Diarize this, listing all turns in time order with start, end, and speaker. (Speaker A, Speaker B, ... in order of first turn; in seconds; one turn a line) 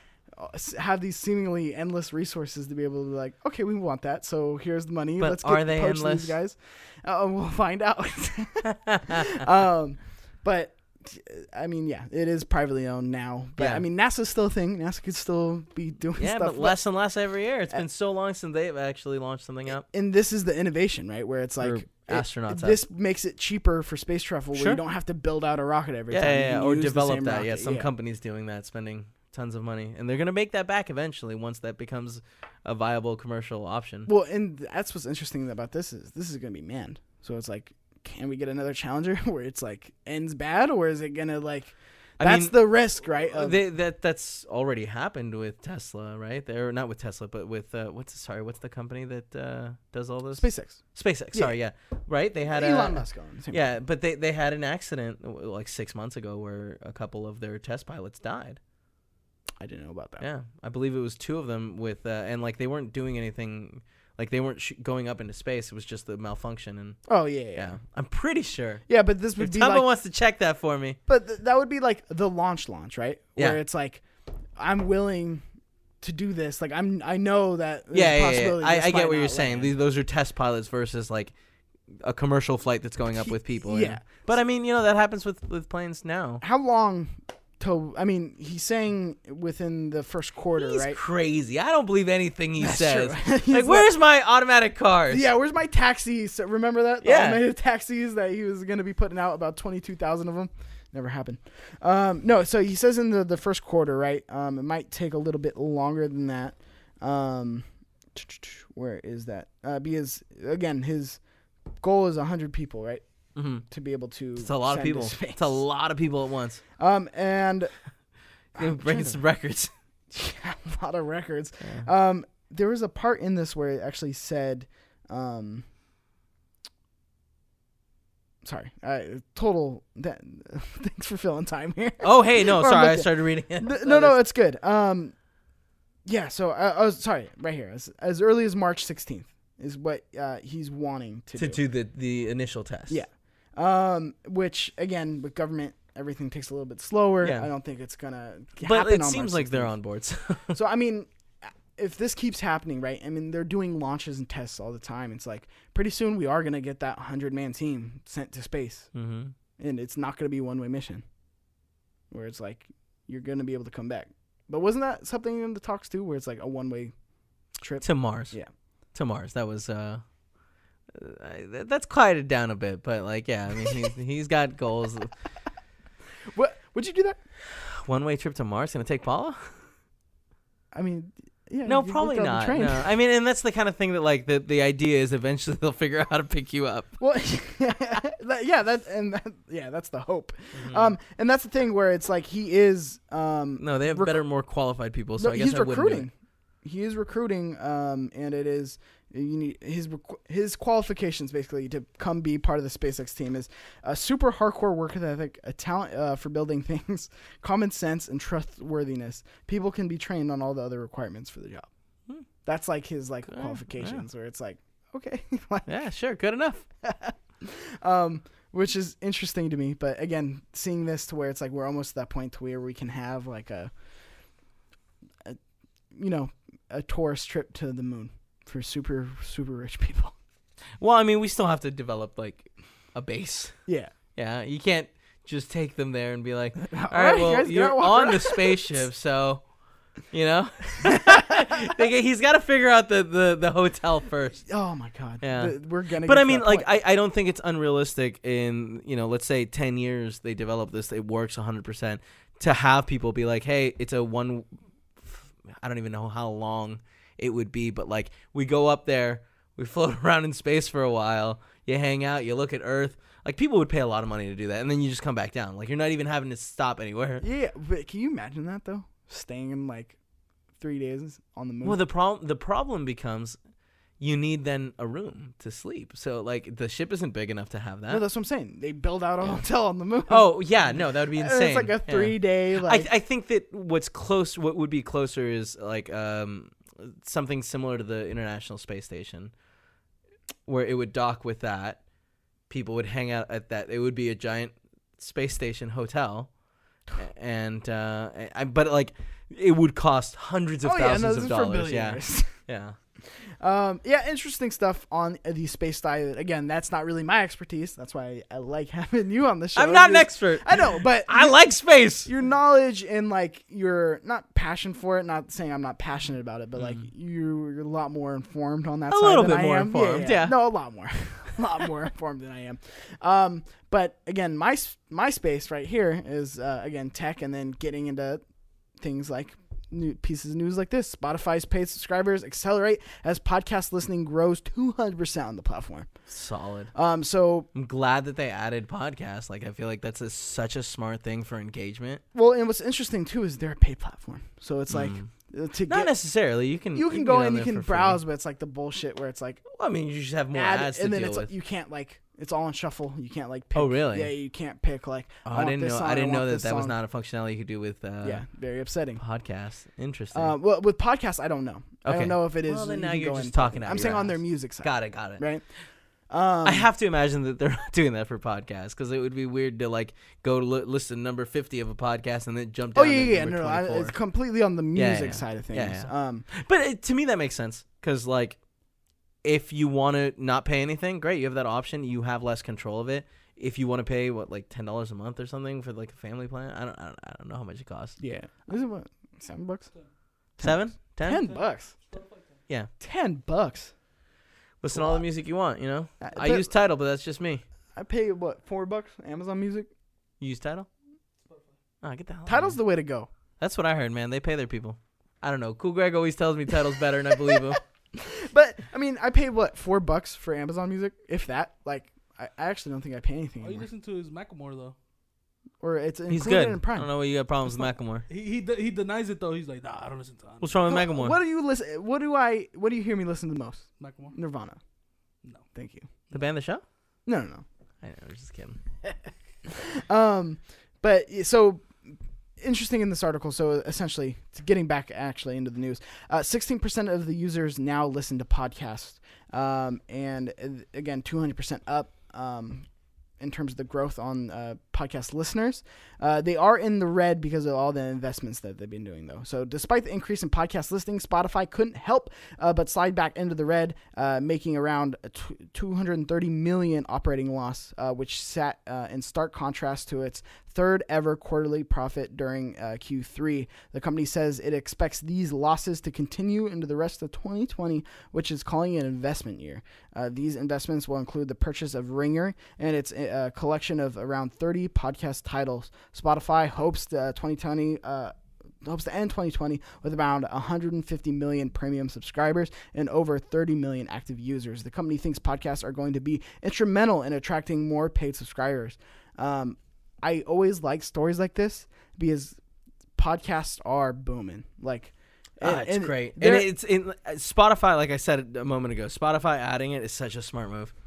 Speaker A: 0.3-16.8
Speaker B: 5.2-6.3
Speaker B: 8.8-9.1
Speaker B: 13.6-13.8
Speaker B: 16.2-19.9
Speaker A: 19.8-27.9
Speaker B: 21.6-22.8
Speaker B: 24.5-24.8
Speaker B: 26.1-34.1
Speaker A: 34.1-43.6
Speaker B: 42.2-58.6
Speaker A: 50.4-51.6
Speaker A: 52.5-53.6
Speaker A: 59.6-60.2
Speaker B: 60.2-71.0
Speaker A: 67.0-67.8
Speaker A: 68.9-69.8
Speaker A: 71.1-75.5
Speaker A: 76.0-79.7
Speaker B: 77.9-81.3
Speaker B: 81.9-86.4
Speaker A: 83.2-84.0
Speaker A: 86.4-91.0
Speaker B: 90.6-95.2
Speaker A: 92.6-93.9
Speaker A: 95.1-115.6
Speaker B: 97.0-97.4
Speaker B: 113.3-113.7
Speaker B: 114.3-116.6
Speaker A: 116.8-118.0
Speaker A: 118.5-119.2
Speaker B: 118.5-119.7
Speaker A: 120.1-125.7
Speaker B: 121.6-121.9
Speaker A: 128.4-135.2
Speaker B: 132.0-134.2
Speaker A: 136.0-141.6
Speaker B: 141.4-143.0
Speaker A: 142.9-149.8
Speaker B: 147.2-147.5
Speaker B: 148.6-150.6
Speaker A: 150.5-158.9
Speaker B: 158.9-159.3
Speaker A: 159.6-161.0
Speaker A: 162.1-168.5
Speaker B: 167.8-168.4
Speaker B: 168.9-170.0
Speaker B: 170.9-175.1
Speaker A: 176.3-177.2
Speaker B: 177.7-179.6
Speaker A: 180.7-182.9
Speaker B: 181.7-187.0
Speaker A: 187.0-194.2
Speaker B: 190.5-190.9
Speaker B: 193.6-196.1
Speaker A: 195.2-211.7
Speaker A: 212.3-215.7
Speaker B: 213.3-214.0
Speaker B: 215.7-216.7
Speaker A: 216.8-223.8
Speaker A: 225.2-230.2
Speaker B: 230.8-239.5
Speaker A: 233.7-233.9
Speaker A: 236.7-238.8
Speaker B: 240.0-244.5
Speaker A: 244.5-246.7
Speaker B: 245.2-267.2
Speaker A: 267.2-270.0
Speaker A: 270.5-271.8
Speaker B: 271.6-273.4
Speaker B: 274.0-278.0
Speaker A: 277.9-282.9
Speaker B: 280.1-289.3
Speaker B: 290.4-291.8
Speaker B: 292.5-296.4
Speaker B: 296.9-302.8
Speaker A: 300.6-302.5
Speaker A: 303.0-336.1
Speaker B: 309.5-312.1
Speaker B: 316.6-316.8
Speaker B: 318.9-320.3
Speaker B: 336.1-336.7
Speaker A: 336.7-337.5
Speaker B: 337.5-342.0
Speaker A: 342.1-345.9
Speaker B: 344.7-345.1
Speaker B: 345.6-348.0
Speaker A: 346.7-349.6
Speaker B: 349.5-351.3
Speaker A: 350.3-356.8
Speaker B: 353.5-354.1
Speaker B: 355.2-358.2
Speaker A: 358.0-359.0
Speaker B: 359.0-360.3
Speaker A: 360.1-366.7
Speaker B: 361.8-365.2
Speaker B: 366.4-374.0
Speaker A: 372.7-376.3
Speaker B: 374.7-378.4
Speaker B: 379.2-388.0
Speaker A: 388.0-389.8
Speaker A: 390.3-391.8
Speaker B: 390.4-391.3
Speaker C: 391.0-392.4
Speaker A: 392.8-394.0
Speaker B: 394.6-397.4
Speaker A: 394.7-395.1
Speaker A: 396.0-396.5
Speaker A: 397.7-399.7
Speaker B: 400.2-400.7
Speaker C: 401.2-401.6
Speaker B: 401.8-402.6
Speaker A: 402.2-403.1
Speaker B: 403.4-407.6
Speaker A: 407.2-413.6
Speaker C: 413.4-414.7
Speaker A: 415.6-416.9
Speaker B: 416.1-418.0
Speaker C: 418.1-420.7
Speaker B: 420.4-421.1
Speaker A: 420.7-424.6
Speaker C: 423.8-424.2
Speaker C: 425.2-425.5
Speaker A: 425.5-425.9
Speaker B: 426.1-426.7
Speaker A: 427.0-427.4
Speaker B: 427.8-428.8
Speaker A: 429.9-492.4
Speaker A: 492.9-496.5
Speaker B: 495.4-500.7